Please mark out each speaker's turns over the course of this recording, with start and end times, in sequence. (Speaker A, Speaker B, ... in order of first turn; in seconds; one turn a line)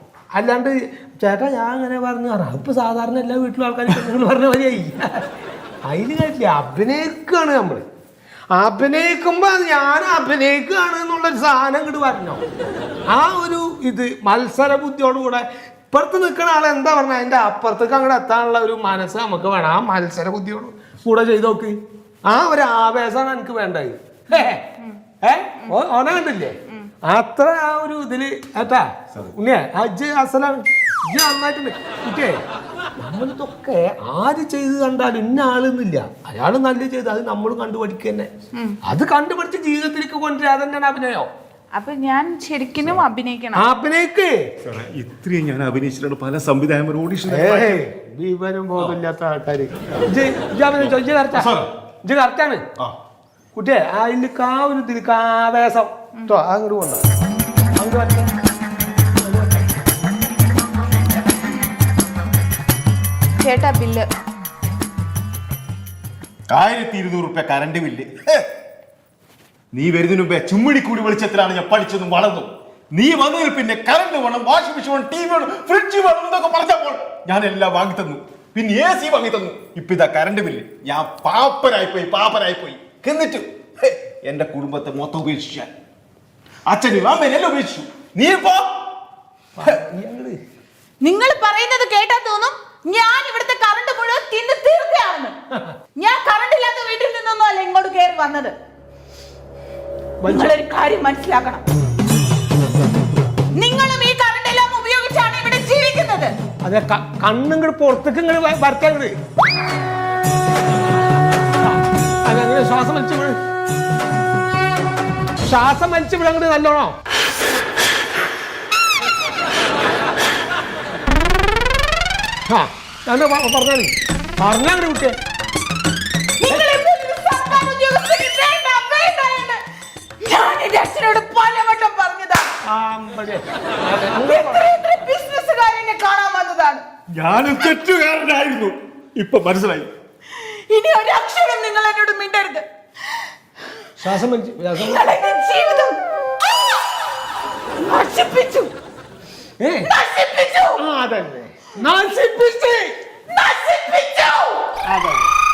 Speaker A: 0.3-5.3
Speaker A: 5.8-7.8
Speaker A: 8.5-12.4
Speaker A: 13.1-32.4
Speaker A: 32.9-38.3
Speaker A: 38.8-41.3
Speaker B: 41.7-43.7
Speaker A: 43.5-44.5
Speaker C: 44.6-47.8
Speaker A: 47.3-51.5
Speaker C: 50.8-51.7
Speaker A: 52.0-52.6
Speaker A: 53.5-57.0
Speaker A: 57.8-58.4
Speaker A: 59.2-59.7
Speaker B: 63.4-64.1
Speaker C: 66.5-68.5
Speaker C: 69.7-85.7
Speaker C: 86.7-88.9
Speaker A: 89.5-90.4
Speaker B: 91.0-95.3
Speaker B: 96.0-98.5
Speaker A: 100.2-100.5
Speaker B: 100.2-101.6
Speaker B: 103.5-106.3
Speaker A: 106.6-109.1
Speaker A: 111.6-113.4
Speaker A: 115.4-117.0
Speaker A: 122.5-125.2
Speaker B: 126.4-129.6
Speaker B: 130.2-132.5
Speaker A: 132.6-134.6
Speaker B: 134.2-136.8
Speaker C: 137.1-139.9
Speaker B: 140.4-142.7
Speaker A: 144.0-145.0
Speaker B: 144.8-146.0
Speaker B: 147.8-148.7
Speaker A: 149.6-149.9
Speaker B: 149.8-150.8
Speaker A: 150.8-152.9
Speaker B: 153.3-154.7
Speaker A: 154.8-155.3